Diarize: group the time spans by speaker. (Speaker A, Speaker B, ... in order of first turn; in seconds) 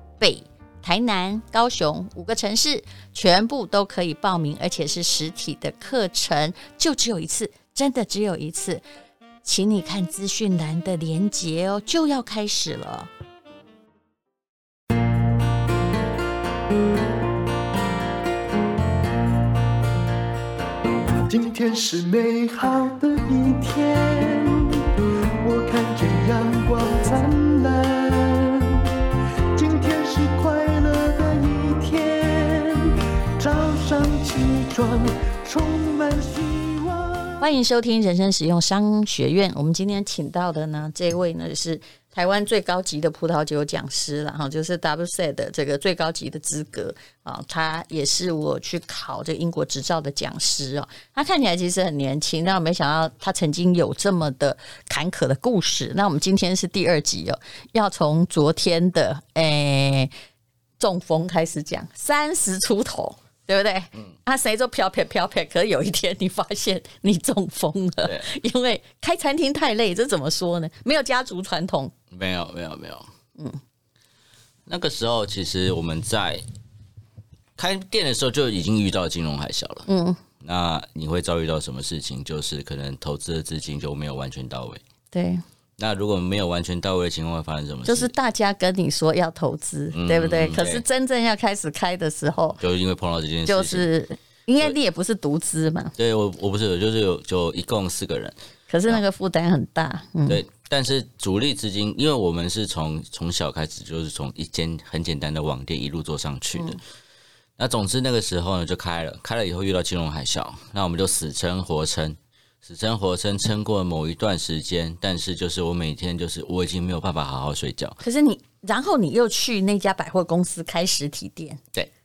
Speaker A: 0.2-8.8, 9.4-13.1, 37.4-60.1, 60.8-71.9, 79.9-80.2, 85.1-85.4, 87.9-92.6, 93.5-95.9, 98.7-100.4, 118.0-121.6
Speaker B: 21.3-28.9, 29.5-37.5
Speaker C: 72.1-73.1, 74.7-76.4, 77.6-79.9, 80.4-84.8, 85.8-88.1, 89.9-90.8, 92.6-93.9, 96.0-98.3, 100.3-106.8, 107.6-118.0